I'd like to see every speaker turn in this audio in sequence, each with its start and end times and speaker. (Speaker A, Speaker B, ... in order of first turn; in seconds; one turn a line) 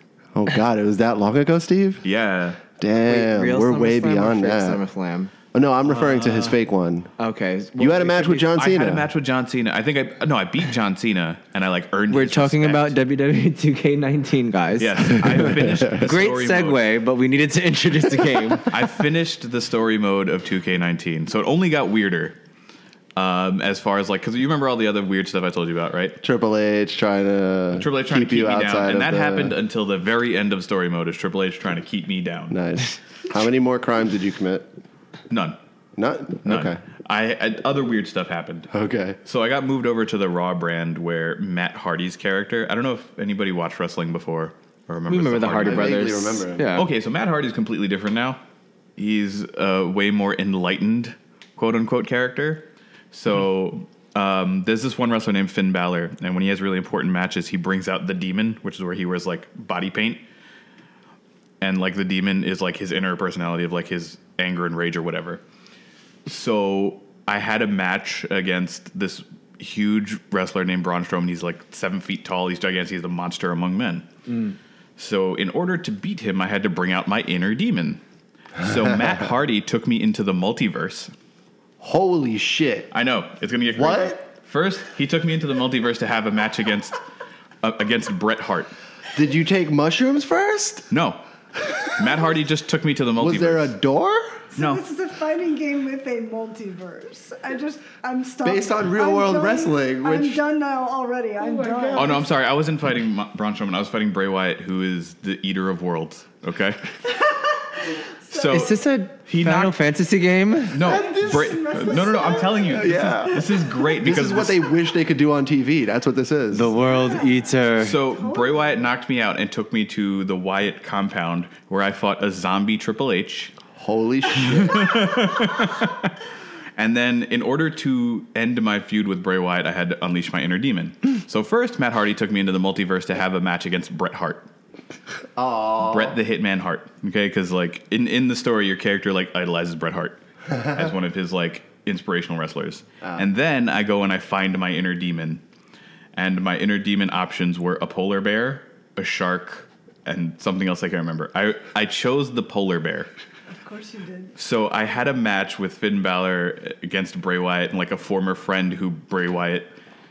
Speaker A: 0.3-2.0
Speaker B: 2.0-2.6
Speaker A: 2.8-4.8
Speaker C: 3.0-5.3
Speaker A: 5.5-7.1
Speaker C: 5.9-6.5
Speaker C: 7.2-8.5
Speaker A: 7.8-9.1
Speaker B: 8.5-12.9
Speaker C: 12.1-18.9
Speaker B: 14.8-16.9
Speaker B: 18.7-22.4
Speaker B: 23.1-26.2
Speaker A: 26.2-29.5
Speaker B: 27.7-32.6
Speaker A: 32.5-34.6
Speaker B: 35.3-35.6
Speaker A: 36.0-36.8
Speaker B: 36.4-38.7
Speaker A: 38.7-39.2
Speaker B: 39.2-46.1
Speaker C: 45.1-46.9
Speaker A: 45.6-46.8
Speaker B: 46.7-48.4
Speaker B: 49.0-60.2
Speaker B: 61.6-65.4
Speaker B: 66.3-74.1
Speaker B: 75.0-78.0
Speaker B: 78.6-81.1
Speaker A: 81.8-82.9
Speaker B: 82.9-87.0
Speaker A: 83.7-84.2
Speaker B: 87.6-88.7
Speaker A: 89.1-90.9
Speaker B: 90.9-91.2
Speaker B: 91.8-93.7
Speaker A: 93.2-94.2
Speaker D: 94.5-102.2
Speaker B: 94.5-94.8
Speaker A: 98.4-100.4
Speaker A: 101.4-102.2
Speaker B: 102.0-106.8
Speaker D: 107.2-108.7
Speaker B: 108.3-109.7
Speaker C: 108.5-110.8
Speaker B: 110.7-114.6
Speaker A: 110.8-116.7
Speaker D: 110.8-113.3
Speaker C: 116.5-118.0
Speaker D: 116.9-117.5
Speaker B: 117.8-123.6
Speaker D: 118.0-118.8
Speaker A: 123.7-125.0
Speaker B: 124.3-126.1
Speaker B: 126.8-134.5
Speaker A: 135.3-136.2
Speaker B: 135.8-145.4
Speaker A: 143.0-143.2
Speaker B: 146.1-153.1
Speaker D: 153.5-154.3
Speaker B: 154.4-159.7